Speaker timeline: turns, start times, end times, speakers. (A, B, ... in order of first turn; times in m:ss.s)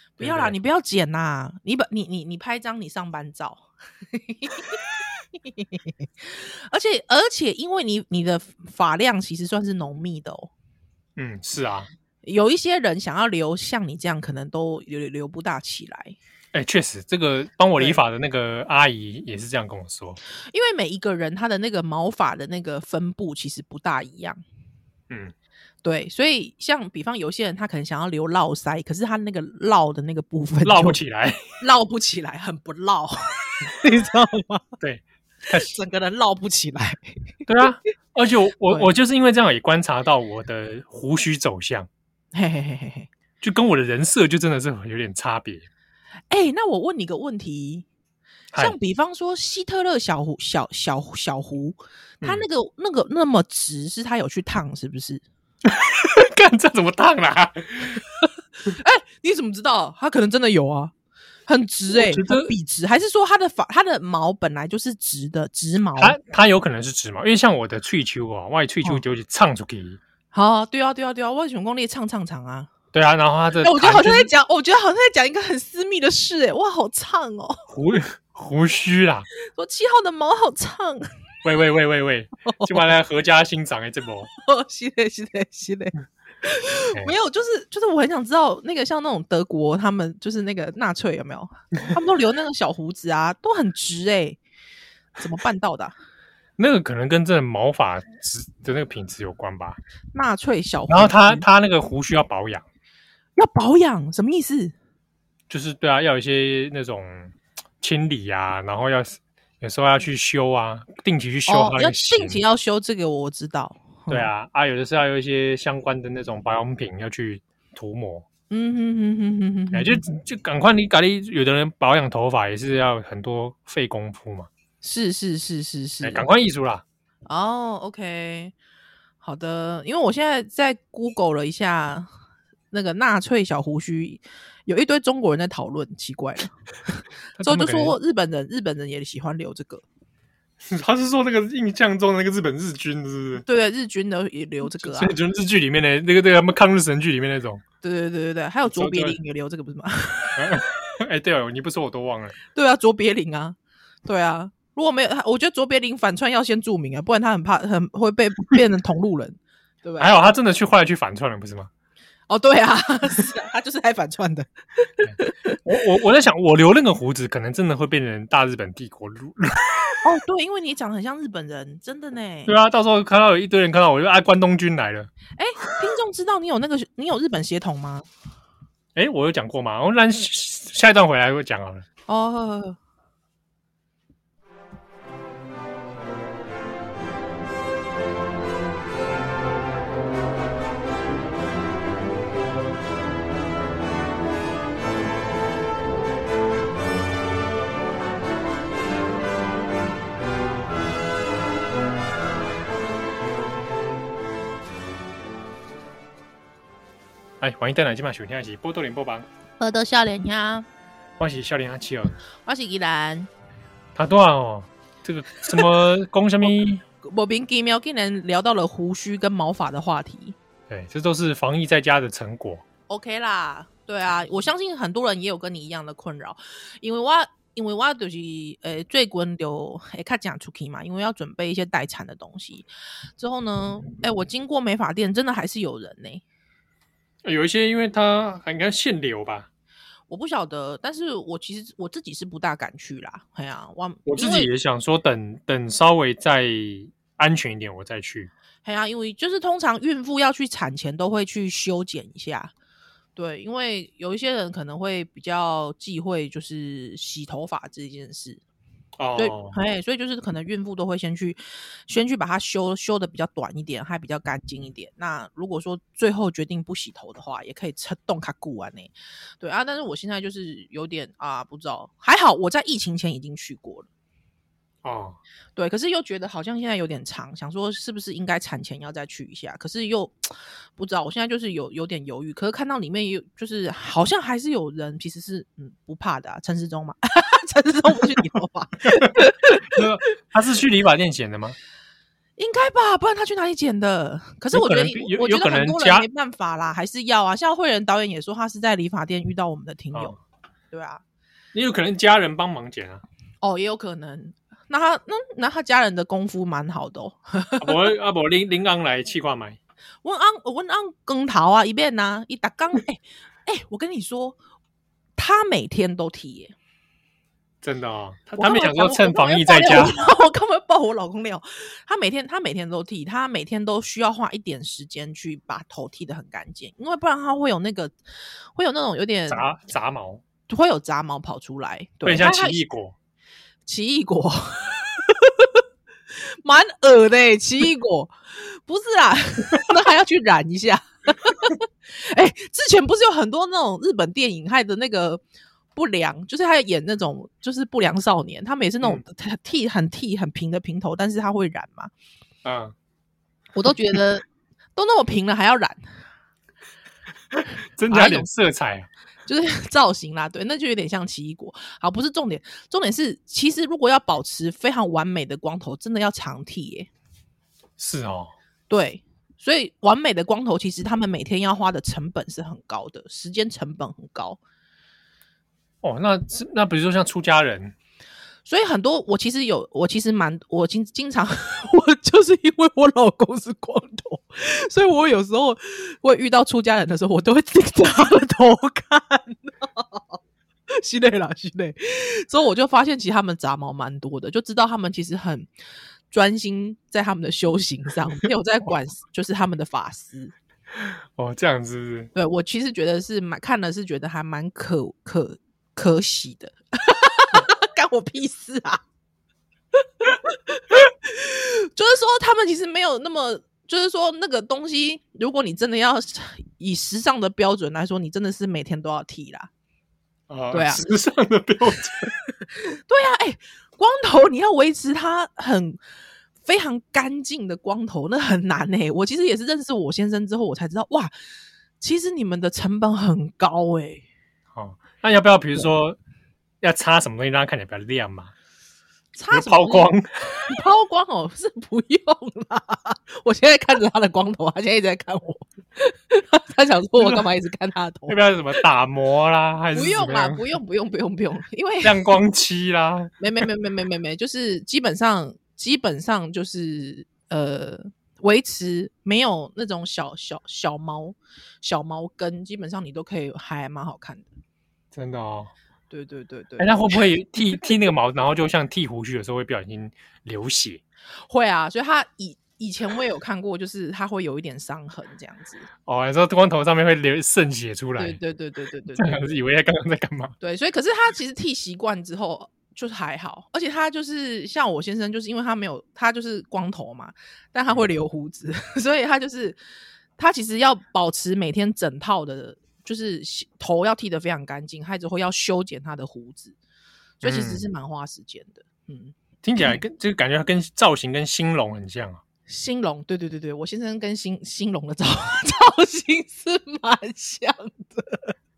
0:00.2-0:04.8 A
0:00.2-0:00.6 B
0:05.4-0:10.5 A
0:11.2-0:11.9 B
0:12.2-0:16.2 A
0:16.5-0:20.2 B
0:20.5-0:24.4 A
0:25.8-0:31.0 A
0:30.6-0:31.4 B
0:31.6-0:34.7 A
0:34.8-0:35.7 B
0:35.5-0:37.0 A
0:37.5-0:41.9 B
0:42.3-0:43.1 A
0:43.4-0:45.7 B
0:46.3-0:47.9 A
0:48.6-0:55.2 A
0:55.6-0:58.0 B
0:58.7-1:00.9 A
1:01.5-1:06.2 A
1:01.9-1:02.5 B
1:06.0-1:10.0 B
1:10.3-1:12.7 A
1:12.9-1:14.3 B
1:13.6-1:17.7 A
1:17.7-1:19.3 B
1:19.5-1:21.1 A
1:21.4-1:24.3 B
1:22.5-1:22.9 A
1:24.3-1:34.4 A
1:35.2-1:35.9 A
1:36.6-1:39.8 B
1:40.1-1:41.4 A
1:40.9-1:42.6 B
1:43.4-1:44.7 A
1:45.5-1:52.4 B
1:51.5-1:54.3 A
1:54.1-1:58.3 B
1:58.5-2:00.1 A
1:59.7-2:04.5 B
2:04.8-2:06.3 A
2:06.0-2:06.8 B
2:07.3-2:08.5 A
2:09.2-2:12.1 A
2:12.7-2:16.5 A
2:17.4-2:18.0 B
2:17.4-2:19.8 A
2:20.6-2:23.4 B
2:23.4-2:25.2 A
2:24.8-2:27.6 B
2:27.8-2:30.6 A
2:28.7-2:29.2 B
2:30.4-2:32.4 B
2:32.6-2:40.1 A
2:40.0-2:41.7 B
2:42.3-2:45.6 A
2:45.6-2:50.0 B
2:50.0-2:52.5 A
2:52.5-2:55.1 B
2:55.4-2:58.0 A
2:59.0-3:01.8 B
3:02.1-3:02.8 A
3:27.4-3:29.3 B
3:29.6-3:30.7 A
3:31.2-3:32.2 B
3:32.5-3:33.3 A
3:34.0-3:36.8 B
3:37.0-3:40.4 A
3:40.7-3:42.6 B
3:42.9-3:52.7 A
3:53.2-3:56.2 A
3:57.2-3:59.5 B
4:00.1-4:04.5 A
4:04.1-4:08.3 B
4:08.6-4:12.5 A
4:13.2-4:18.4 A
4:19.0-4:19.6 B
4:19.2-4:33.9 A
4:34.8-4:35.2 B
4:35.6-4:49.9 A
4:48.8-4:51.6 B
4:52.4-5:00.2 A
4:54.5-4:56.1 B
5:00.7-5:01.0 A
5:01.5-5:03.0 B
5:03.4-5:07.9 A
5:07.6-5:09.6 B
5:10.0-5:14.4 A
5:15.2-5:16.6 A
5:17.6-5:20.0 B
5:18.4-5:28.0 A
5:28.6-5:29.5 A
5:29.3-5:30.2 B
5:30.5-5:32.6 A
5:32.0-5:33.0 B
5:33.7-5:35.6 A
5:36.2-5:45.2 A
5:45.8-5:51.9 A
5:52.4-5:52.7 B
5:53.6-5:54.2 A
5:54.8-5:55.8 A
5:57.3-5:58.9 B
5:57.9-5:58.3 A
5:59.3-6:06.9 A
6:07.8-6:08.3 B
6:08.7-6:14.4 A
6:15.8-6:17.8 B
6:18.5-6:30.2 A
6:30.7-6:35.5 A
6:36.1-6:40.3 A
6:40.8-6:42.1 B
6:42.2-6:48.8 A
6:50.0-6:59.5 A
7:00.3-7:02.1 B
7:00.5-7:00.8 A
7:02.6-7:05.8 A
7:06.4-7:11.1 A
7:11.8-7:14.0 A
7:14.5-7:16.0 B
7:16.6-7:18.3 B
7:19.2-7:28.6 A
7:19.3-7:20.5 B
7:27.0-7:27.3 B
7:28.1-7:30.4 B
7:29.7-7:32.2 A
7:31.8-7:33.4 B
7:33.2-7:44.3 A
7:44.9-7:45.5 B
7:45.9-7:47.0 A
7:46.6-7:50.8 B
7:51.3-7:55.7 A
7:55.9-7:58.2 B
7:58.0-7:59.3 A
7:59.0-8:00.4 B
8:00.4-8:09.6 A
8:10.2-8:16.6 A
8:17.2-8:19.8 A
8:17.2-8:17.6 B
8:19.4-8:22.2 B
8:22.5-8:28.3 A